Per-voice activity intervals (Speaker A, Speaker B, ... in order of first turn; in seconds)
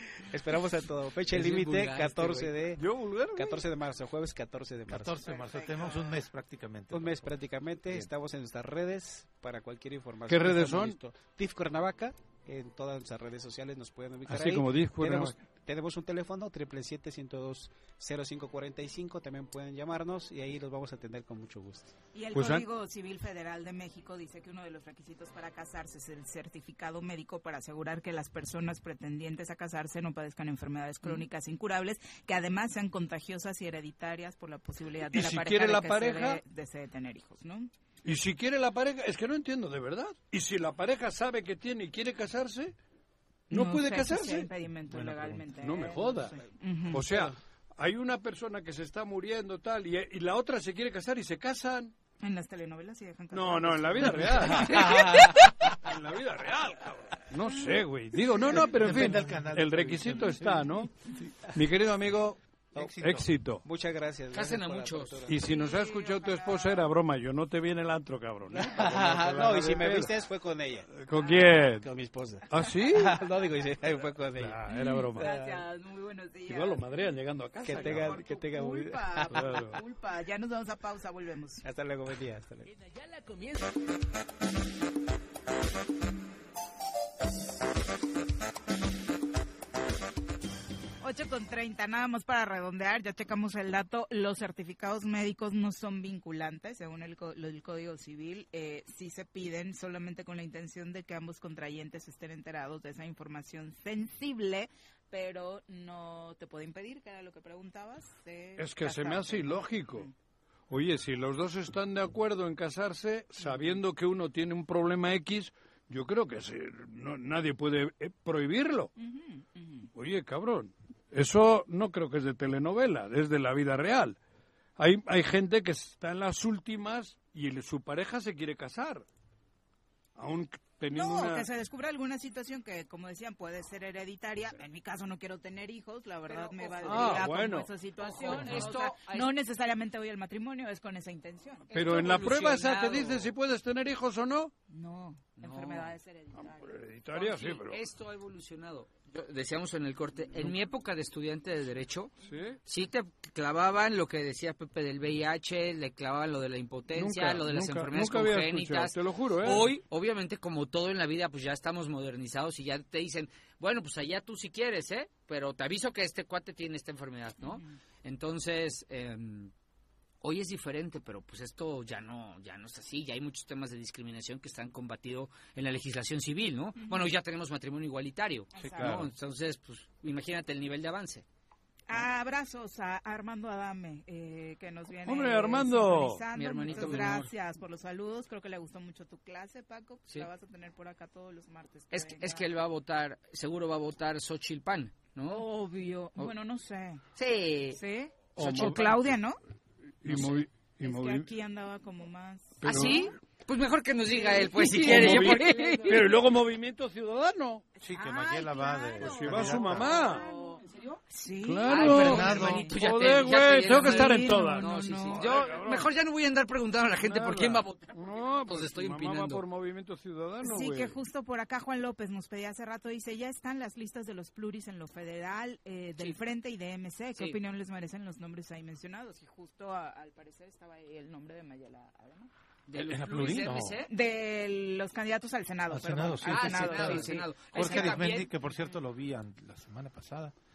Speaker A: 0.2-5.2, 6.9-21.9, 63.5-65.4, 68.5-70.9, 71.7-74.6, 75.2-75.6, 77.6-79.5, 81.6-82.7
Speaker B: 1.3-2.5, 64.3-65.3, 136.3-137.3, 138.0-139.3, 141.7-143.3, 145.4-145.9, 147.1-152.1, 152.7-169.5, 170.2-181.2, 186.3-187.3, 191.9-195.5, 197.1-197.8, 198.4-198.8, 202.6-206.2, 210.0-211.0, 211.6-219.4, 232.7-233.9, 236.2-238.3
Speaker C: 2.7-3.6, 10.3-11.0, 14.3-15.3, 22.3-22.6, 35.1-36.4, 38.0-42.7, 43.5-44.5, 45.6-46.4, 46.9-51.9, 53.3-62.4, 62.9-63.6, 65.2-70.2, 70.9-71.9, 72.5-73.2, 74.3-75.3, 76.5-78.2, 79.3-79.8, 108.6-110.1, 110.7-118.9, 119.9-124.2, 124.8-129.1, 130.2-131.5, 136.8-137.7, 141.7-144.5, 146.4-147.8, 152.2-152.6, 156.9-159.7, 178.8-179.1, 185.0-187.2, 198.3-199.1, 200.0-201.3, 202.6-203.1, 204.5-207.6, 209.0-210.2, 211.4-215.9, 217.0-220.9
Speaker D: 4.9-7.3, 44.9-45.5, 58.5-60.7, 62.7-63.3, 207.8-210.0, 211.8-212.8, 232.7-233.8, 235.7-240.3
Speaker E: 5.2-6.1, 22.1-37.7, 43.5-47.0, 52.2-55.2, 65.4-66.9, 71.1-71.6, 74.7-76.8, 77.7-81.6, 91.0-110.1, 113.4-113.8, 119.0-119.9, 130.9-141.7, 144.7-146.7, 176.8-177.1, 178.5-178.9, 181.9-192.5, 195.2-197.0, 197.7-199.4, 200.1-202.9, 204.4-206.1, 207.8-212.5, 213.7-215.2, 220.4-232.3, 233.9-238.1